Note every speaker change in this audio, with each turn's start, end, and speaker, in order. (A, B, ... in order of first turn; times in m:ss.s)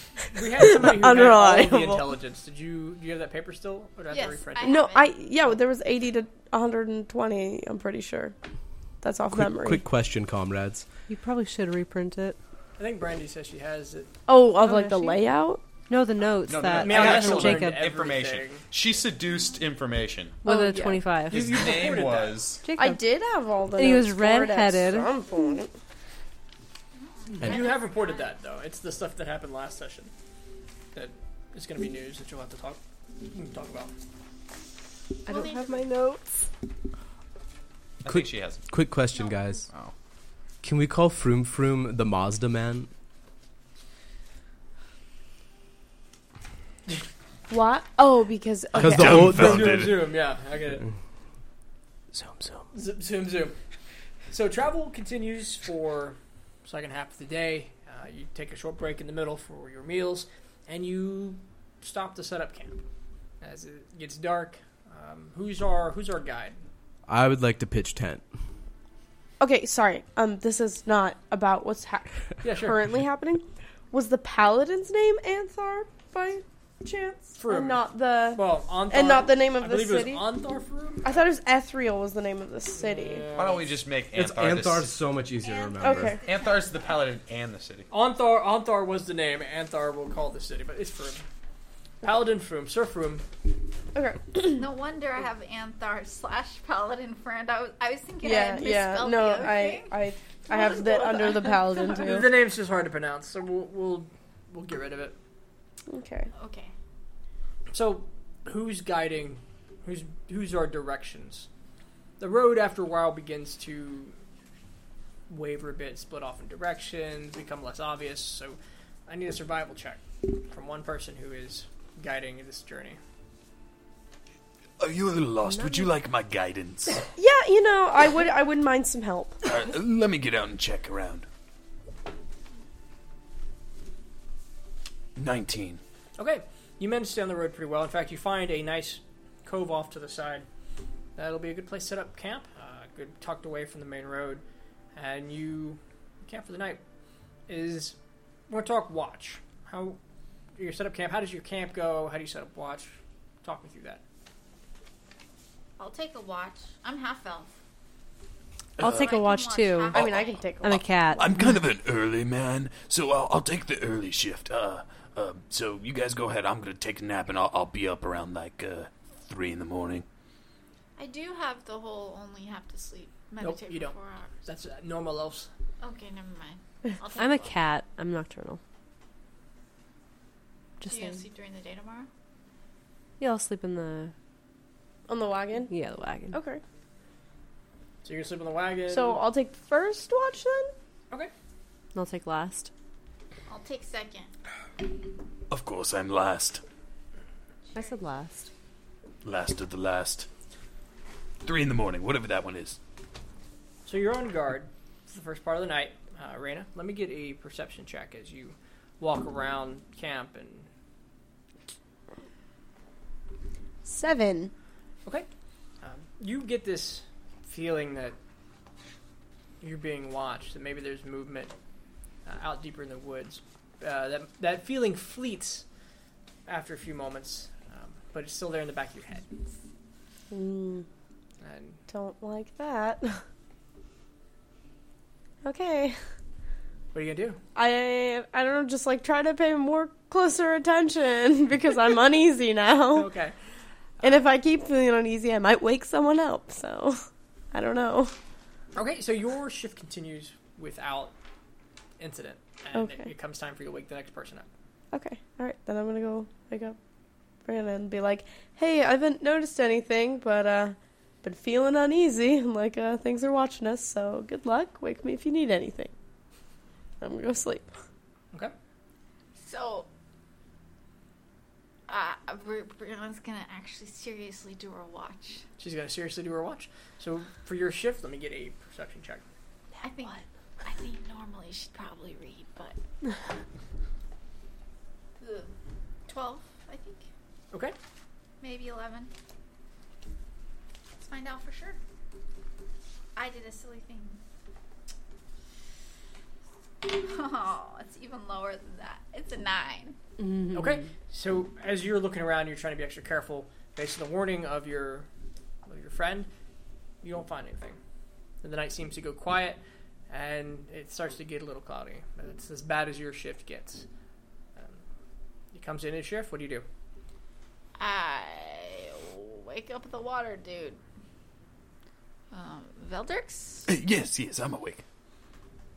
0:00.3-0:04.8 A
0:00.7-0:02.1 B
0:04.1-0:05.1 C
0:04.6-0:08.4 B
0:09.0-0:09.8 B
0:09.3-0:10.9 D
0:11.1-0:12.4 E
0:12.8-0:14.1 A
0:14.3-0:15.6 B
0:14.6-0:15.2 E
0:15.9-0:17.8 E
0:16.4-0:20.4 F
0:16.7-0:18.6 A
0:20.4-0:21.7 E
0:20.4-0:21.0 B
0:21.2-0:22.7 F
0:21.3-0:22.4 A
0:22.6-0:23.0 E
0:22.7-0:25.7 B
0:23.7-0:25.1 E
0:27.0-0:28.3 C
0:27.4-0:30.1 A
0:30.9-0:33.9 A
0:35.3-0:35.8 C
0:35.3-0:36.4 E
0:38.0-0:38.7 F
0:38.0-0:39.7 D
0:40.6-0:42.9 D
0:47.5-0:49.3 B
0:48.8-0:50.0 G
0:48.8-0:49.9 D
0:49.1-0:50.8 A
0:52.1-0:52.6 D
0:52.7-0:53.6 A
0:54.3-1:02.8 A
1:03.4-1:06.6 A
1:07.1-1:08.2 D
1:09.4-1:20.2 B
1:12.4-1:12.8 A
1:17.4-1:21.2 A
1:21.0-1:23.3 B
1:22.7-1:23.7 A
1:23.3-1:25.0 F
1:24.1-1:26.2 D
1:25.4-1:26.9 C
1:25.8-1:26.2 B
1:26.2-1:27.9 F
1:27.9-1:31.2 A
1:32.0-1:33.2 A
1:33.9-1:34.6 B
1:34.4-1:39.9 C
1:38.2-1:42.3 B
1:40.5-1:41.8 C
1:41.8-1:45.2 A
1:45.9-1:46.3 B
1:46.3-1:46.7 C
1:47.7-1:51.5 A
1:52.2-1:54.2 A
1:55.3-2:03.0 A
2:04.8-2:07.0 G
2:05.5-2:05.9 E
2:07.1-2:09.4 B
2:09.4-2:11.3 G
2:15.2-2:15.8 G
2:16.2-2:20.4 A
2:21.2-2:24.4 A
2:25.0-2:26.8 A
2:27.5-2:28.0 A
2:28.5-2:30.0 A
2:30.6-2:34.0 A
2:35.8-2:37.5 C
2:38.8-2:39.1 G
2:38.8-2:40.0 E
2:38.8-2:40.4 C
2:39.9-2:40.8 B
2:40.6-2:41.2 E
2:41.1-2:50.0 G
2:51.0-2:54.3 C
2:53.4-2:55.5 A
2:55.8-2:57.5 C
2:57.2-2:58.6 E
3:00.8-3:01.2 E
3:00.8-3:02.1 C
3:03.2-3:04.1 E
3:05.1-3:05.7 B
3:05.7-3:06.4 E
3:06.3-3:06.6 B
3:08.0-3:09.2 A
3:08.9-3:10.7 B
3:11.9-3:12.7 E
3:13.5-3:14.3 C
3:15.5-3:16.6 G
3:17.7-3:18.5 E
3:19.2-3:20.3 G
3:21.4-3:22.8 G
3:23.8-3:30.7 A
3:33.8-3:34.5 B
3:35.8-3:38.1 A
3:39.6-3:41.5 A
3:42.2-3:45.6 A
3:46.4-3:49.3 A
3:50.3-3:50.8 B
3:51.4-3:51.8 A
3:51.9-3:53.2 B
3:55.4-3:56.0 B
3:56.9-3:57.4 A
3:57.6-4:03.1 B
4:02.9-4:03.3 A
4:04.0-4:08.1 B
4:08.7-4:11.1 A
4:12.0-4:14.5 A
4:12.7-4:13.1 B
4:14.9-4:16.8 B
4:17.4-4:25.9 B
4:27.0-4:27.7 B
4:29.3-4:29.9 C
4:31.9-4:35.4 C
4:35.6-4:39.2 A
4:39.8-4:42.8 C
4:45.2-4:45.5 C
4:46.1-4:47.0 C
4:48.4-4:49.1 C
4:51.0-4:51.8 C
4:53.1-4:54.2 C
4:56.8-5:00.0 C
5:00.2-5:00.8 E
5:00.5-5:05.1 A
5:05.6-5:06.3 A
5:07.0-5:07.8 A
5:08.4-5:09.6 A
5:10.1-5:13.8 A
5:14.6-5:14.8 A
5:15.5-5:16.6 A
5:17.8-5:20.8 C
5:22.3-5:23.7 C
5:23.7-5:24.8 G